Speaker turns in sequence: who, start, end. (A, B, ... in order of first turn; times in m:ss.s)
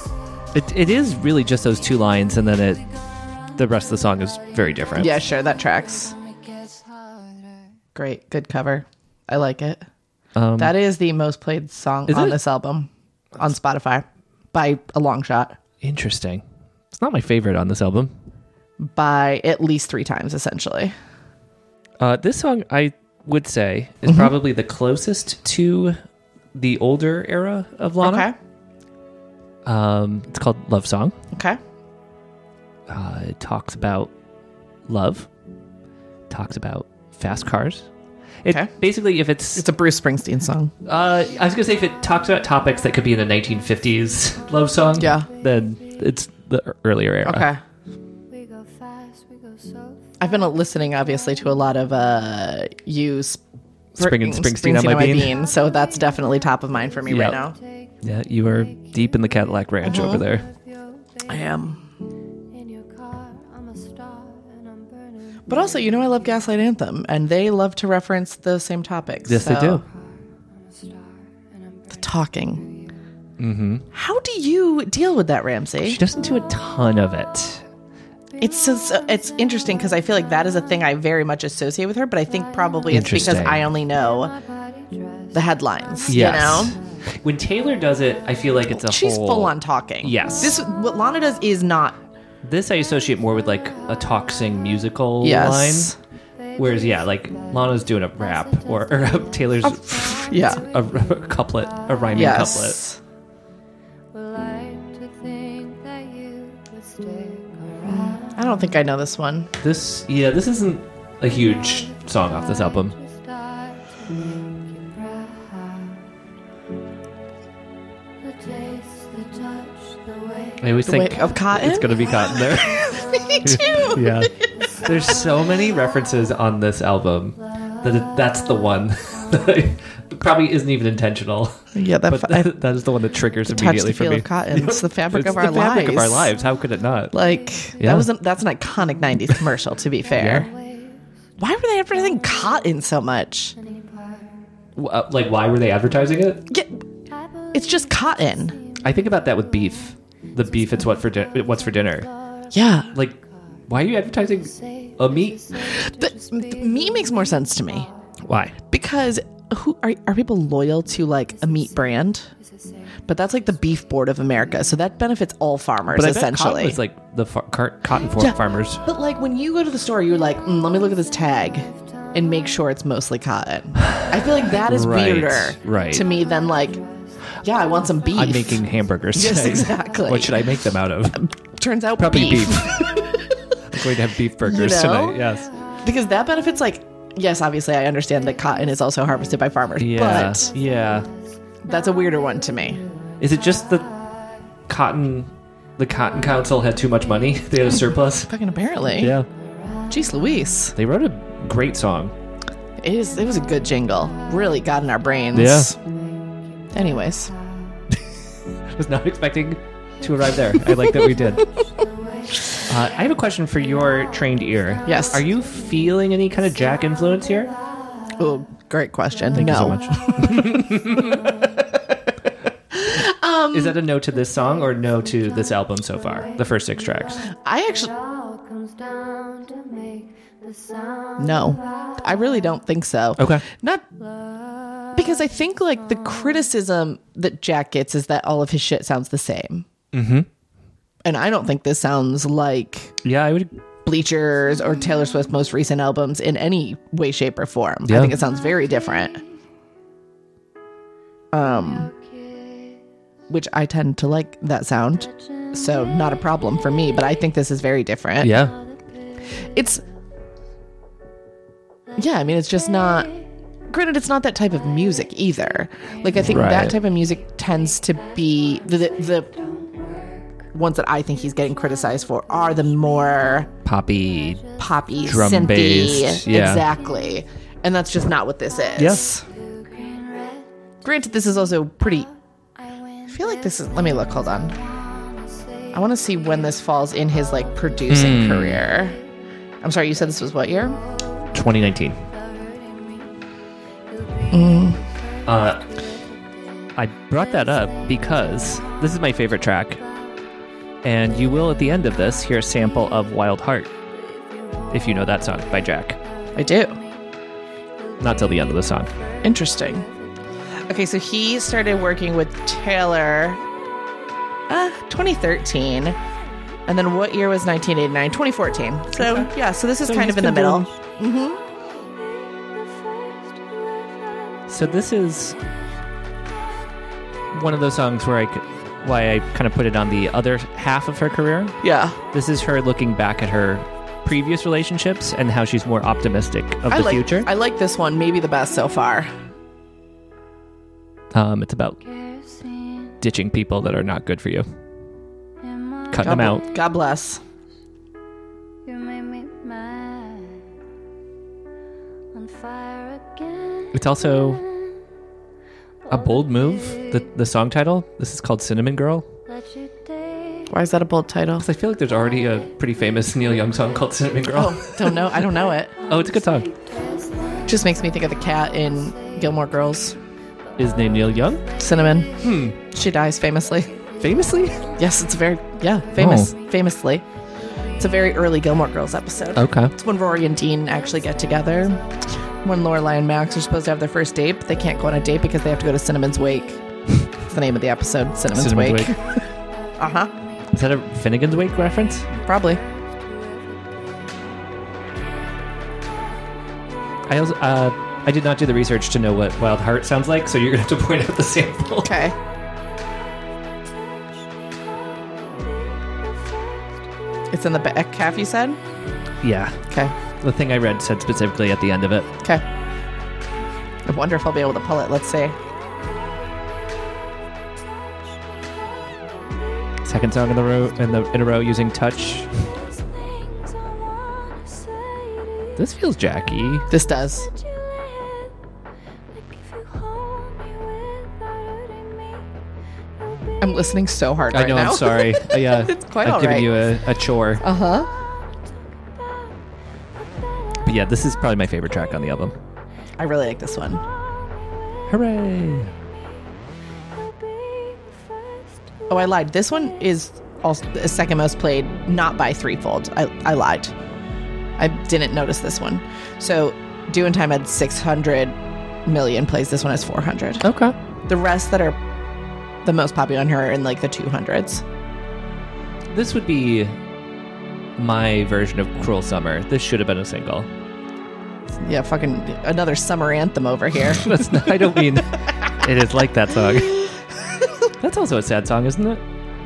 0:00.5-0:02.8 A
0:03.6-0:05.1 A
0:05.0-0:06.1 B
0:06.4-0:07.4 C
0:07.9-0:09.8 B
0:10.3-0:10.7 A
0:10.6-0:15.6 B
0:12.1-0:12.4 A
0:15.8-0:18.1 A
0:18.8-0:20.9 B
0:22.0-0:26.0 A
0:26.5-0:28.3 A
0:28.0-0:28.4 B
0:29.6-0:31.1 A
0:31.3-0:31.6 B
0:32.9-0:34.1 A
0:34.9-0:35.3 A
0:36.3-0:37.9 A
0:38.4-0:39.6 A
0:39.6-0:40.7 B
0:40.8-0:47.5 A
0:45.0-0:45.3 B
0:47.2-0:47.6 B
0:48.3-0:50.0 C
0:50.2-0:53.4 B
0:54.0-0:55.3 A
0:54.0-0:57.6 B
0:57.1-0:57.4 A
0:58.0-1:00.5 A
0:59.8-1:00.2 B
1:01.3-1:01.8 B
1:02.5-1:05.4 C
1:05.5-1:09.8 B
1:09.2-1:09.8 A
1:10.5-1:12.0 C
1:11.9-1:12.6 B
1:13.4-1:13.8 A
1:13.9-1:16.0 B
1:15.8-1:17.6 A
1:18.4-1:24.3 B
1:22.9-1:23.7 A
1:24.4-1:25.3 C
1:25.3-1:26.8 B
1:26.1-1:30.6 A
1:28.7-1:32.0 B
1:32.4-1:35.9 A
1:35.2-1:36.0 B
1:36.5-1:41.0 C
1:36.6-1:42.8 A
1:39.6-1:40.6 B
1:42.1-1:43.0 B
1:44.1-1:48.3 C
1:47.8-1:49.5 B
1:49.6-1:53.0 A
1:52.9-1:56.0 C
1:58.2-2:00.6 C
2:00.6-2:17.1 A
2:00.8-2:04.5 B
2:11.7-2:12.5 B
2:13.5-2:16.3 B
2:17.1-2:20.5 B
2:17.8-2:18.1 A
2:20.2-2:20.5 A
2:21.4-2:23.6 B
2:23.6-2:24.4 C
2:24.8-2:26.4 A
2:26.5-2:26.8 B
2:27.5-2:28.6 B
2:28.8-2:32.1 A
2:32.5-2:32.9 B
2:32.9-2:35.5 A
2:34.7-2:36.4 C
2:35.6-2:37.9 B
2:38.2-2:38.6 A
2:38.7-2:42.3 B
2:42.6-2:42.9 C
2:43.1-2:46.8 B
2:45.9-2:48.8 A
2:48.2-2:56.8 B
2:54.0-2:56.0 A
2:57.4-3:00.4 B
2:58.1-3:01.2 A
3:01.2-3:03.6 B
3:02.0-3:02.7 A
3:03.7-3:05.5 A
3:04.4-3:05.2 B
3:05.8-3:10.5 B
3:09.8-3:11.1 A
3:11.6-3:12.8 B
3:13.2-3:13.9 A
3:14.7-3:18.3 A
3:18.3-3:19.1 B
3:19.0-3:19.3 A
3:19.9-3:20.7 B
3:20.8-3:22.1 A
3:22.8-3:25.8 B
3:25.3-3:25.7 A
3:26.7-3:27.3 B
3:28.7-3:31.4 A
3:32.7-3:37.5 A
3:34.8-3:35.2 B
3:38.2-3:40.8 B
3:39.3-3:41.4 A
3:42.7-3:43.7 B
3:43.5-3:47.2 A
3:47.3-3:47.9 B
3:48.0-3:51.6 C
3:51.2-3:53.8 B
3:53.2-3:53.4 A
3:54.9-3:59.7 B
3:59.9-4:00.3 A
4:01.0-4:03.0 B
4:03.0-4:03.5 A
4:03.8-4:09.2 B
4:07.8-4:08.1 A
4:11.3-4:11.9 B
4:12.2-4:12.6 C
4:13.3-4:18.4 B
4:18.2-4:18.6 A
4:19.4-4:19.8 B
4:22.0-4:23.1 B
4:23.7-4:29.4 B
4:26.2-4:26.8 A
4:29.3-4:30.3 C
4:30.5-4:33.5 B
4:33.6-4:34.4 A
4:34.6-4:39.2 B
4:35.0-4:36.6 A
4:38.8-4:39.0 A
4:39.3-4:40.5 C
4:40.8-4:42.1 B
4:43.1-4:44.6 B
4:44.8-4:45.6 C
4:45.7-4:49.0 B
4:47.9-4:48.6 A
4:49.6-4:50.8 B
4:51.3-4:52.0 A
4:52.1-4:53.2 C
4:53.9-4:56.7 C
4:54.3-4:54.8 B
4:55.2-4:55.6 A
4:56.8-4:59.8 A
4:57.6-4:58.6 C
5:00.8-5:03.7 A
5:04.0-5:04.7 C
5:04.7-5:06.0 A
5:06.4-5:06.8 B
5:08.0-5:08.9 A
5:09.2-5:09.9 B
5:10.7-5:13.4 B
5:14.5-5:16.0 B
5:16.7-5:21.4 B
5:19.0-5:19.3 A
5:19.8-5:20.7 A
5:21.9-5:24.3 C
5:24.5-5:25.4 A
5:27.3-5:31.6 A
5:31.6-5:32.0 B
5:32.1-5:37.3 A
5:36.7-5:39.1 B
5:41.1-5:41.8 A
5:41.9-5:43.0 C
5:43.0-5:44.5 A
5:45.4-5:46.1 C
5:45.9-5:46.4 A
5:46.0-5:47.2 B
5:48.6-5:50.4 C
5:52.1-5:53.7 C
5:53.7-5:54.4 A
5:55.9-5:59.0 A
5:59.3-6:00.4 C
6:00.5-6:01.4 B
6:01.4-6:04.9 A
6:04.3-6:05.7 B
6:05.9-6:06.5 A
6:06.4-6:08.2 C
6:07.4-6:10.0 B
6:10.6-6:11.4 A
6:11.6-6:12.1 B
6:12.2-6:12.6 A
6:12.7-6:13.7 B
6:14.0-6:14.6 A
6:14.8-6:17.0 B
6:16.0-6:16.3 A
6:17.8-6:26.6 B
6:19.3-6:19.7 A
6:27.2-6:29.0 B
6:28.3-6:29.2 A
6:29.8-6:30.1 B
6:30.5-6:32.1 A
6:32.2-6:32.6 B
6:33.0-6:33.5 C
6:37.1-6:42.0 A
6:41.8-6:42.1 B
6:46.0-6:46.6 C
6:47.3-6:48.6 B
6:49.2-6:49.6 A
6:50.2-6:52.1 A
6:53.9-6:55.4 B
6:59.8-7:02.3 A
7:02.7-7:05.6 C
7:05.6-7:06.7 A
7:06.7-7:07.3 B
7:07.4-7:08.3 C
7:09.1-7:12.3 C
7:13.4-7:16.6 B
7:14.3-7:17.4 A
7:17.4-7:17.9 B
7:19.0-7:19.3 C
7:20.6-7:22.4 A
7:23.0-7:23.8 B
7:24.9-7:25.7 A
7:28.9-7:33.7 B
7:34.6-7:40.4 B
7:40.4-7:40.8 A
7:41.1-7:41.8 B
7:42.6-7:44.6 B
7:45.9-7:46.7 A
7:47.8-7:50.5 A
7:51.6-7:54.7 B
7:53.9-7:56.9 A
7:57.8-7:59.0 A